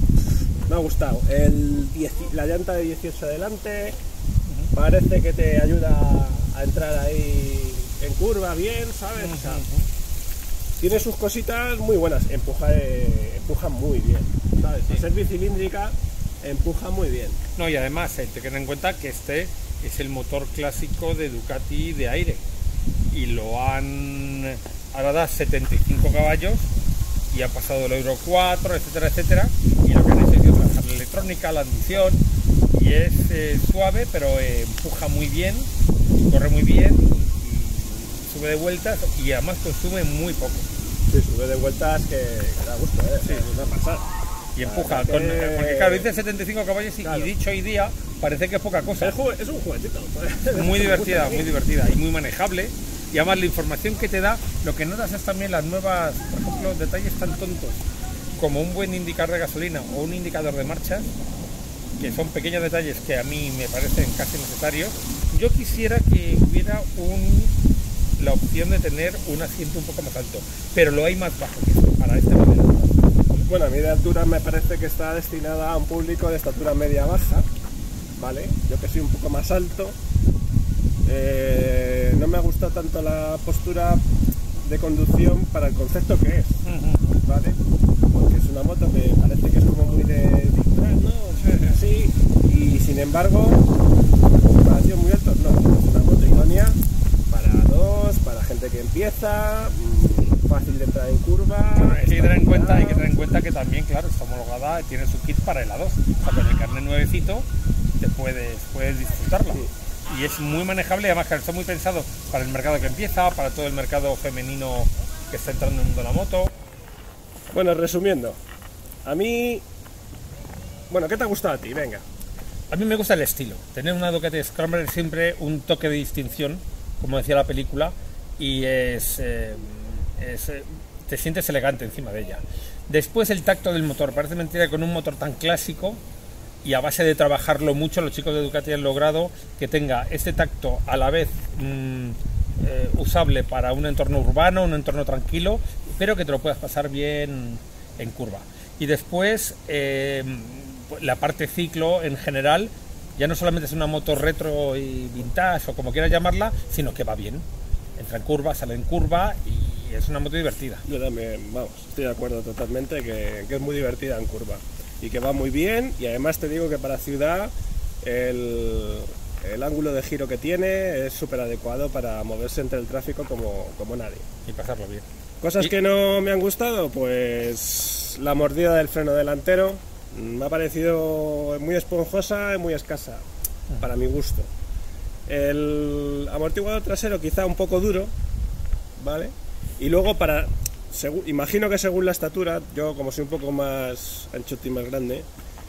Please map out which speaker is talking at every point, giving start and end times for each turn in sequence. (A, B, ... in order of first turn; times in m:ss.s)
0:00.7-0:04.0 A
0:04.4-0:04.7 B
0:04.7-0:09.6 A
0:09.1-0:09.9 B
0:10.8-0:17.4 A
0:17.6-0:22.4 B
0:23.1-0:26.7 B
0:27.3-0:35.7 B
0:36.2-0:40.7 B
0:41.1-0:44.0 A
0:43.2-0:43.5 B
0:44.5-0:49.2 B
0:44.6-0:46.1 A
0:47.0-0:47.3 A
0:49.0-0:51.5 A
0:50.5-0:57.8 B
0:58.4-1:01.1 B
1:02.0-1:07.5 B
1:08.2-1:13.4 B
1:13.4-1:17.5 A
1:18.2-1:20.0 A
1:21.0-1:24.0 A
1:24.6-1:26.6 A
1:26.6-1:27.2 B
1:27.2-1:27.6 A
1:28.1-1:33.6 A
1:34.4-1:43.1 A
1:41.8-1:47.5 B
1:48.0-1:56.5 B
1:57.5-1:58.4 A
1:59.0-1:59.6 A
2:00.9-2:02.0 A
2:02.7-2:16.0 B
2:16.6-2:37.4 B
2:38.0-2:40.8 B
2:40.9-2:54.2 A
2:54.4-2:55.0 B
2:55.4-3:03.2 A
3:03.8-3:04.5 A
3:05.3-3:08.1 A
3:09.0-3:15.2 A